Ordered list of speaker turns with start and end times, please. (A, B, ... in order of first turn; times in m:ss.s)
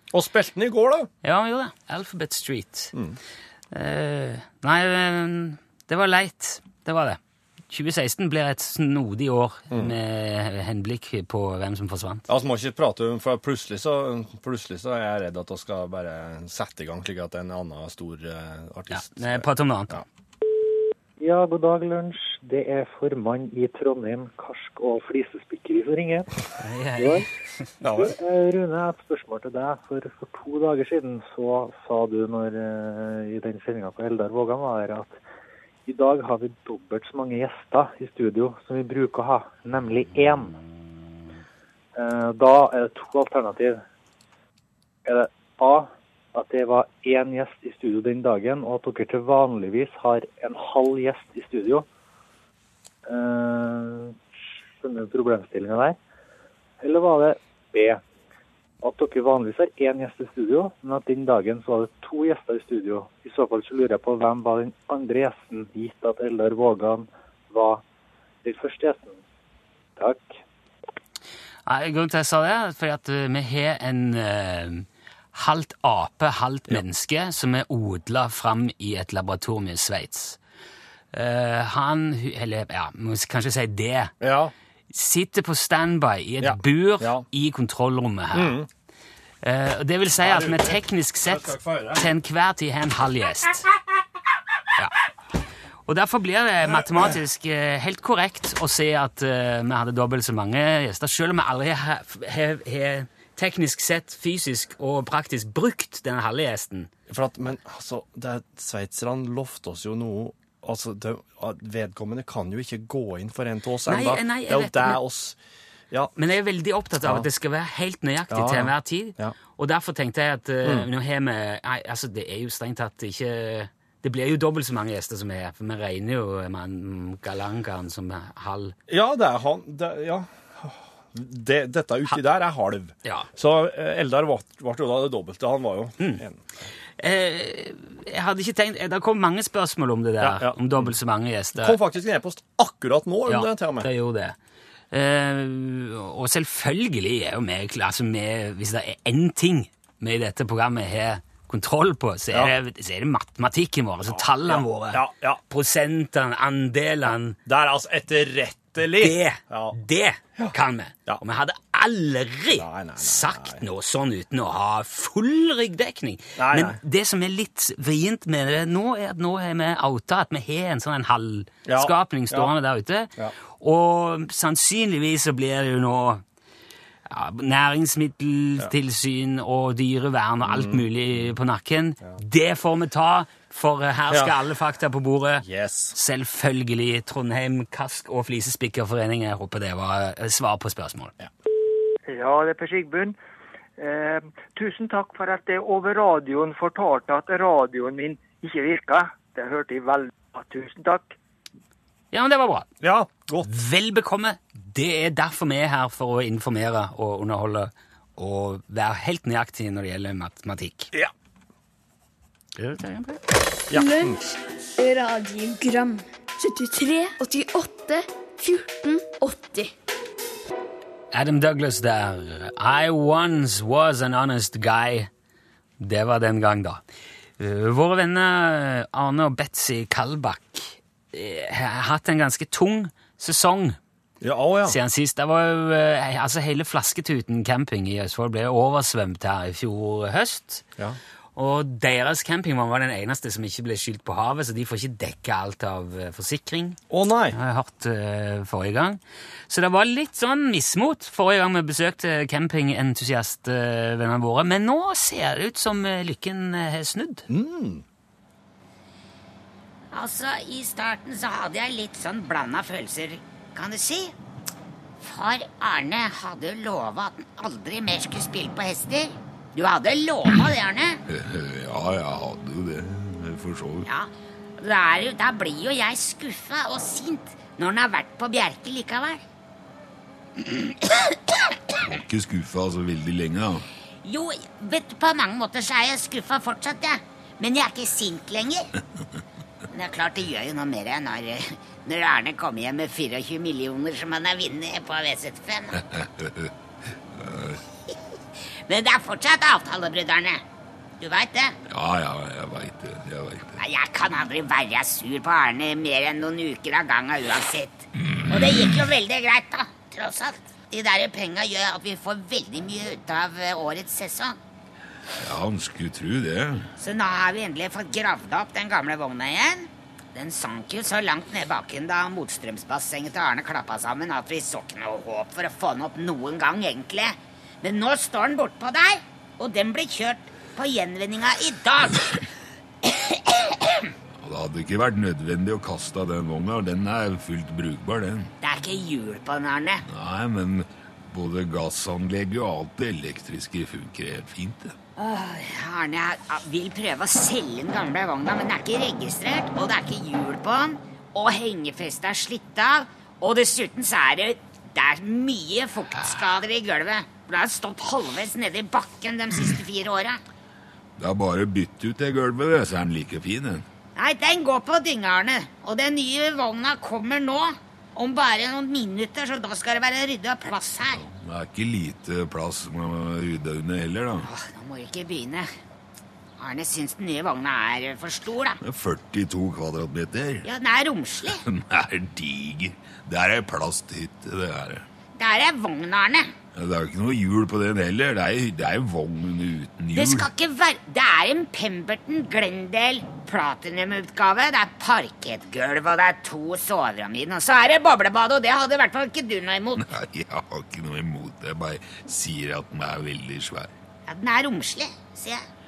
0:00.1-0:01.1 A
0:01.2-0:02.9 B
0:03.7-0:12.3 B
0:12.3-0:20.0 A
0:18.9-0:20.0 B
0:21.2-0:26.3 C
0:26.6-0:27.3 B
0:27.0-0:27.3 C
0:27.8-0:28.1 A
0:27.9-0:35.2 C
0:35.8-0:40.6 C
0:42.0-0:43.8 C
0:45.0-0:51.8 C
0:53.0-0:54.2 C
0:54.8-0:56.0 C
0:56.8-0:58.0 C
0:58.8-1:07.8 C
1:08.4-1:09.2 C
1:10.0-1:10.4 C
1:11.6-1:20.4 B
1:21.1-1:24.1 B
1:24.2-1:24.5 A
1:24.9-1:28.5 B
1:26.4-1:27.2 A
1:28.3-1:28.7 A
1:29.4-1:33.7 B
1:30.2-1:32.0 A
1:35.9-1:46.9 B
1:47.1-1:55.4 A
1:53.9-1:55.0 B
1:56.2-2:08.7 B
1:58.3-1:59.4 A
2:08.9-2:16.4 A
2:17.0-2:21.8 B
2:20.2-2:20.9 A
2:21.6-2:23.9 A
2:23.3-2:24.4 B
2:24.9-2:37.4 B
2:34.1-2:35.4 A
2:37.4-2:39.8 A
2:38.8-2:56.2 B
2:42.6-2:43.6 A
2:46.4-2:46.8 A
2:51.6-2:52.5 A
2:57.1-3:11.1 B
3:00.4-3:00.8 A
3:04.1-3:04.4 A
3:05.4-3:06.0 A
3:12.1-3:13.2 D
3:13.8-3:21.1 D
3:22.1-3:22.7 B
3:22.8-3:23.5 A
3:23.4-3:30.9 B
3:32.6-3:33.2 B
3:33.7-3:34.2 A
3:33.7-3:39.7 E
3:41.1-3:45.1 B
3:45.8-3:46.8 B
3:47.4-3:53.8 B
3:54.2-3:54.8 A
3:54.7-4:00.6 B
4:01.4-4:06.8 B
4:06.9-4:07.4 A
4:07.3-4:17.3 B
4:17.3-4:17.8 A
4:19.9-4:24.1 F
4:25.0-4:31.0 F
4:31.1-4:33.8 G
4:33.9-4:39.2 F
4:40.4-4:41.6 F
4:41.8-4:43.6 G
4:44.0-4:48.7 F
4:49.7-4:55.8 F
4:56.0-4:56.5 G
4:57.2-4:57.6 G
4:58.7-5:00.4 F
5:01.0-5:01.6 F
5:01.7-5:03.6 G
5:03.6-5:14.4 F
5:08.0-5:08.7 G
5:15.2-5:16.7 G
5:16.8-5:32.2 F
5:32.8-5:33.9 F
5:34.2-5:38.3 G
5:38.4-5:39.8 F
5:39.8-5:44.7 G
5:45.0-6:00.2 F
6:01.0-6:03.6 G
6:04.0-6:11.0 F
6:10.9-6:14.3 G
6:14.2-6:15.5 F
6:16.4-6:18.6 F
6:18.6-6:20.4 G
6:20.4-6:21.4 F
6:21.4-6:24.8 G
6:25.2-6:26.3 F
6:26.5-6:30.3 G
6:29.9-6:39.8 F
6:39.8-6:43.7 G
6:44.1-6:45.4 F